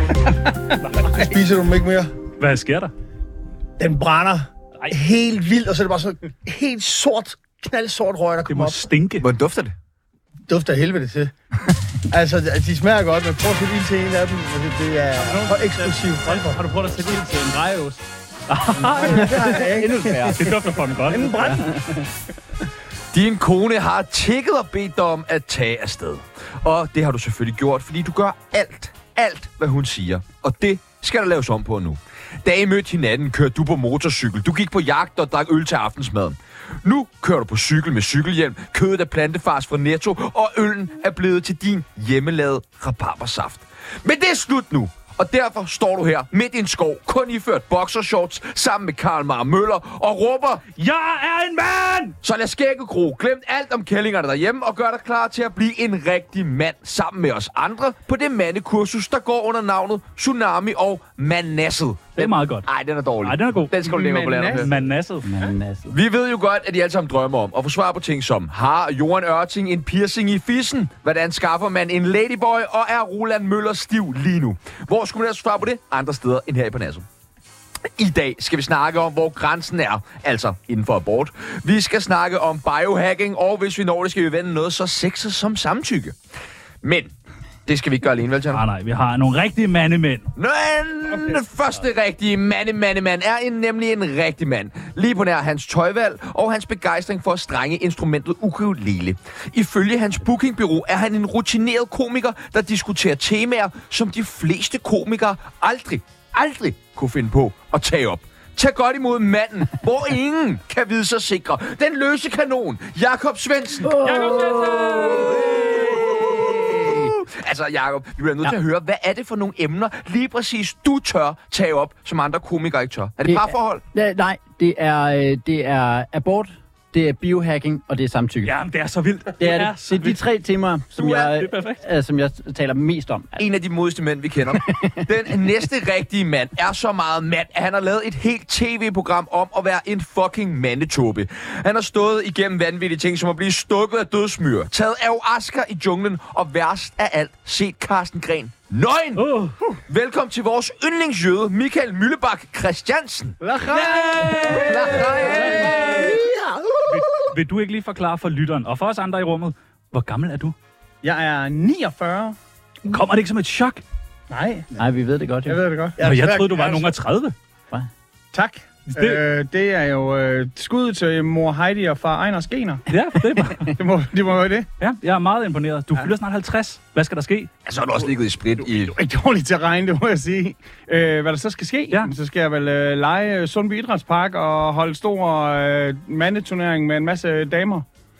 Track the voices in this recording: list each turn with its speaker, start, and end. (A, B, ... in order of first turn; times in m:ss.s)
0:00.8-0:01.2 A
0:01.0-0:02.1 B
0:02.4-0:02.9 A
0:03.8-0:08.9 B
0:08.5-0:09.3 A
0:09.2-0:09.7 C
0:10.5-0:11.3 B
0:12.1-0:16.6 B
0:15.2-0:18.0 D
0:18.5-0:19.3 A
0:18.9-0:19.4 D
0:19.0-0:20.6 B
0:19.0-0:20.8 E
0:20.3-0:21.6 A
0:21.1-0:21.7 D
0:21.3-0:22.0 E
0:23.1-0:50.7 C
0:50.7-0:52.2 A
0:52.2-1:04.9 C
1:02.1-1:02.7 A
1:03.2-1:03.8 A
1:03.8-1:04.7 D
1:04.5-1:05.3 A
1:05.2-1:05.9 E
1:05.9-1:17.0 C
1:18.0-1:26.2 C
1:26.8-1:27.1 C
1:27.6-1:28.6 C
1:28.5-1:30.3 A
1:30.4-1:54.2 C
1:31.1-1:31.4 D
1:53.8-1:57.1 E
1:54.0-1:55.9 A
1:55.1-2:03.8 C
2:03.2-2:08.5 E
2:08.4-2:10.2 A
2:09.4-2:13.4 E
2:10.9-2:11.8 A
2:13.4-2:29.4 C
2:14.5-2:15.0 E
2:29.2-2:29.6 A
2:29.9-2:33.4 C
2:33.4-2:35.9 D
2:33.7-2:36.1 A
2:34.5-2:36.0 C
2:35.8-2:37.4 B
2:36.9-2:40.5 A
2:41.0-2:42.4 D
2:42.9-2:43.8 A
2:44.3-2:44.7 D
2:44.8-2:45.6 E
2:45.4-2:46.0 D
2:46.0-2:47.0 B
2:46.0-2:47.3 A
2:48.3-2:52.8 D
2:48.9-2:49.2 A
2:52.9-2:53.8 A
2:53.6-2:54.7 D
2:54.8-2:57.5 A
2:57.6-2:58.9 C
2:58.6-3:07.8 D